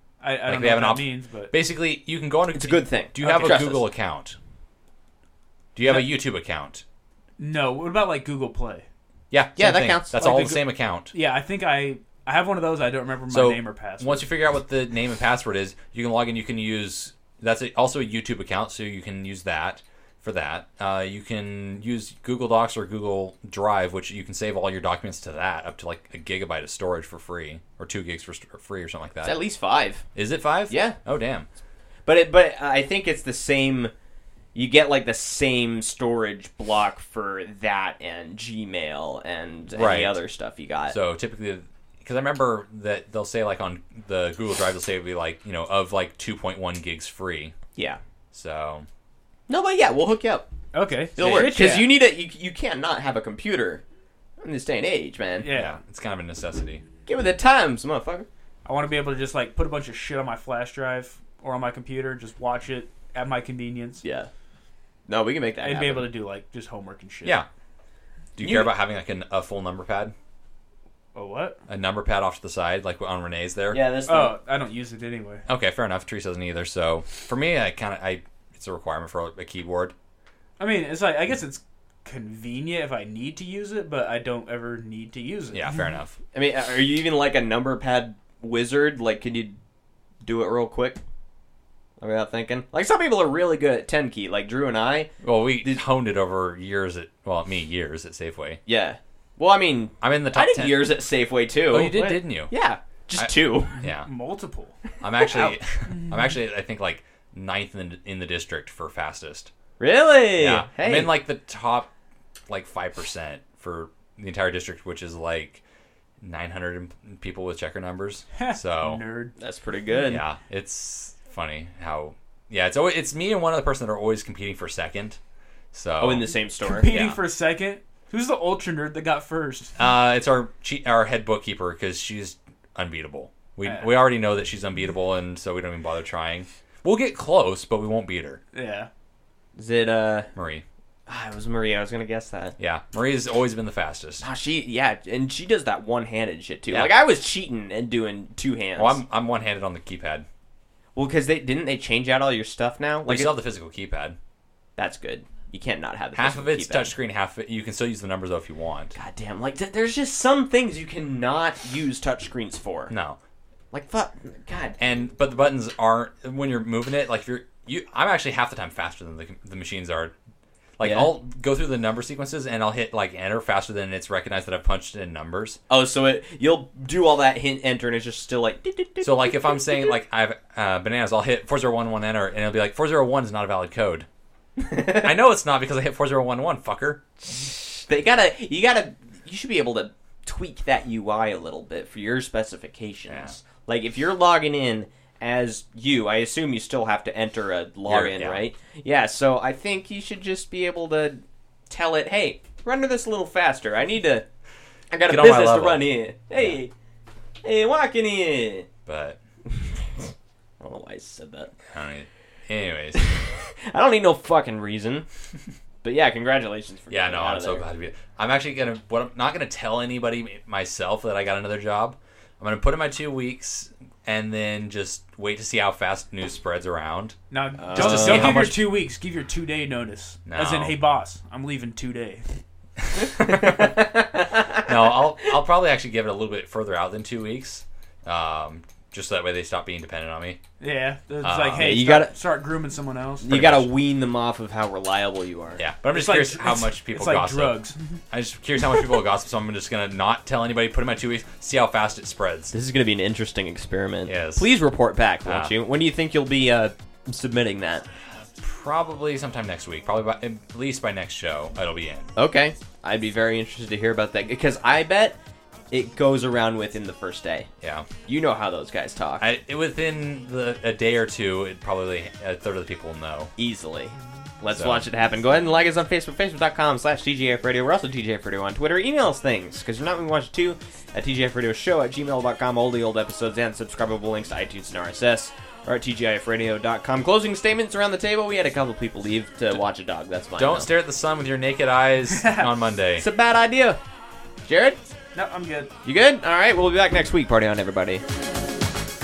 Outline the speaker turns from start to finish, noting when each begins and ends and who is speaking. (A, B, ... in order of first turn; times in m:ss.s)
0:00.2-0:01.5 A
0:00.5-0:04.4 B
0:02.5-0:03.9 C
0:05.8-0:06.8 B
0:07.4-0:08.9 A
0:09.3-0:11.1 B
0:09.6-0:10.6 C
0:11.1-0:14.3 A
0:13.3-0:29.4 B
0:29.2-0:30.0 C
0:30.2-0:31.5 B
0:30.7-0:31.0 C
0:32.1-0:33.9 C
0:34.5-0:41.0 C
0:39.7-0:40.2 B
0:40.9-0:47.6 B
0:48.3-0:48.9 B
0:49.5-0:50.5 C
0:50.7-0:52.0 A
0:51.2-0:53.8 C
0:51.2-0:51.7 B
0:54.4-0:55.5 C
0:55.4-0:55.8 A
0:55.5-0:56.8 B
0:57.1-0:58.3 C
0:58.6-1:04.0 A
1:04.0-1:04.3 C
1:05.1-1:06.1 C
1:05.6-1:07.4 A
1:08.4-1:10.1 B
1:08.4-1:08.7 C
1:11.2-1:11.6 A
1:11.7-1:13.8 B
1:13.7-1:14.4 C
1:14.1-1:15.4 A
1:15.5-1:19.9 B
1:20.6-1:25.8 A
1:25.5-1:26.2 B
1:26.3-1:29.6 C
1:30.2-1:31.0 C
1:32.0-1:35.1 C
1:35.2-1:38.6 B
1:38.7-1:43.8 C
1:40.0-1:41.0 B
1:41.7-1:42.5 B
1:43.2-1:44.1 B
1:43.8-1:44.8 A
1:45.0-1:49.5 B
1:45.4-1:46.3 A
1:49.8-1:51.2 C
1:50.4-1:51.9 B
1:52.5-1:55.6 B
1:56.2-1:59.0 B
1:58.4-1:59.4 A
1:59.4-2:00.2 C
2:00.1-2:05.2 B
2:05.7-2:06.3 B
2:06.0-2:06.9 C
2:06.6-2:09.8 A
2:06.8-2:07.2 B
2:09.8-2:18.4 B
2:18.5-2:18.9 A
2:19.6-2:20.3 C
2:20.4-2:20.6 B
2:21.1-2:22.6 C
2:22.6-2:24.2 B
2:24.2-2:29.0 C
2:28.8-2:30.3 B
2:31.0-2:33.4 C
2:33.0-2:34.2 B
2:34.8-2:36.9 C
2:36.2-2:39.0 B
2:39.0-2:42.9 C
2:42.9-2:43.2 B
2:43.7-2:44.8 C
2:44.8-2:50.1 B
2:50.8-2:55.6 B
2:50.8-2:51.1 C
2:55.7-2:59.9 C
2:59.0-3:04.1 B
3:04.6-3:05.1 C
3:04.9-3:07.0 B
3:07.3-3:24.2 C
3:13.1-3:13.3 B
3:17.9-3:18.4 B
3:24.9-3:26.7 C
3:25.0-3:26.6 B
3:27.4-3:28.7 C
3:28.9-3:29.2 B
3:29.5-3:31.5 C
3:31.7-3:33.1 B
3:33.0-3:35.1 C
3:35.8-3:37.6 C
3:36.9-3:47.2 B
3:47.3-3:52.3 A
3:47.6-3:48.4 C
3:47.8-3:48.7 B
3:50.3-3:50.8 B
3:52.8-3:53.7 B
3:53.2-3:54.7 C
3:54.6-4:00.4 B
4:00.6-4:03.6 A
4:01.2-4:01.8 B
4:01.6-4:02.2 C
4:03.2-4:05.6 C
4:05.6-4:12.5 B
4:05.9-4:08.0 A
4:12.5-4:17.8 C
4:14.1-4:14.5 B
4:15.2-4:15.5 B
4:18.4-4:22.1 B
4:22.2-4:25.2 C
4:25.7-4:27.5 C
4:27.6-4:27.9 B
4:28.1-4:29.2 C
4:29.2-4:33.3 B
4:33.4-4:50.7 C
4:34.6-4:34.9 B
4:50.4-4:53.1 B
4:52.1-4:52.5 A
4:53.0-4:53.8 C
4:54.4-4:54.8 C
4:55.1-4:55.7 A
4:55.8-4:58.0 C